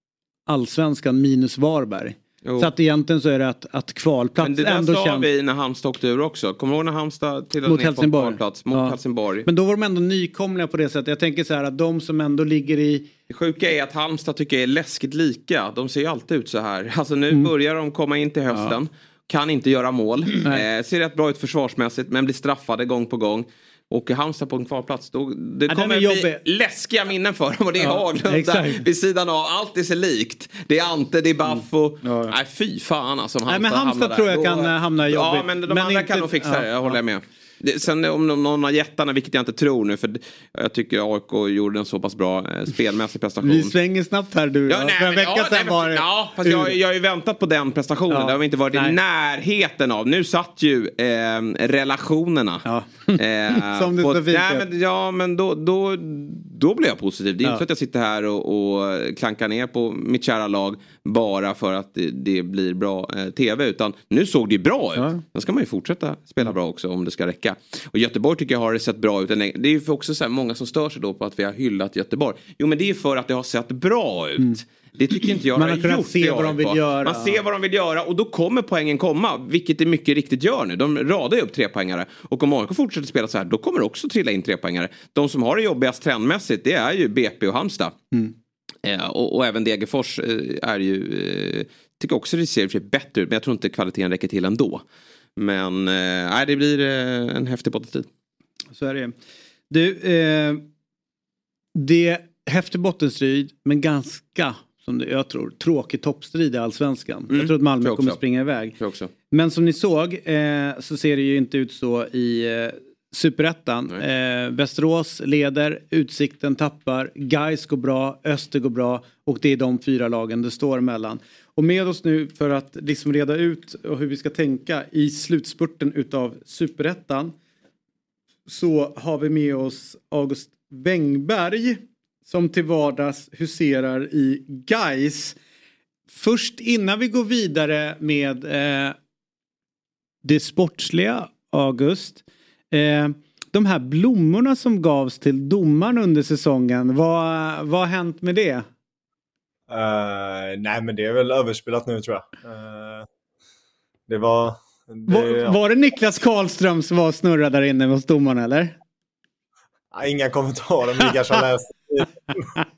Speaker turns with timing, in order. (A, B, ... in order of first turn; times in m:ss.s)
0:00.5-0:05.3 A
0:02.4-0:02.7 B
0:04.4-0:09.5 B
0:07.6-0:13.1 A
0:13.3-0:43.7 B
0:18.5-0:18.8 A
0:25.7-0:26.4 A
0:27.8-0:28.8 A
0:31.4-0:32.4 A
0:33.5-0:37.0 A
0:43.4-0:46.8 A
0:44.7-0:52.6 B
0:48.1-0:49.0 A
0:52.6-0:54.6 A
0:53.2-1:27.9 B
1:05.0-1:05.2 A
1:15.5-1:17.4 A
1:28.8-1:34.8 B
1:35.4-1:38.1 B
1:38.8-1:39.1 A
1:39.7-1:40.6 A
1:41.7-1:48.8 A
1:47.3-1:48.2 B
1:48.7-1:49.1 B
1:49.3-2:07.3 A
2:08.5-2:15.4 A
2:16.1-2:19.0 A
2:20.2-2:28.6 A
2:29.7-2:33.0 C
2:34.1-2:35.6 C
2:35.1-2:38.7 A
2:39.9-2:42.1 C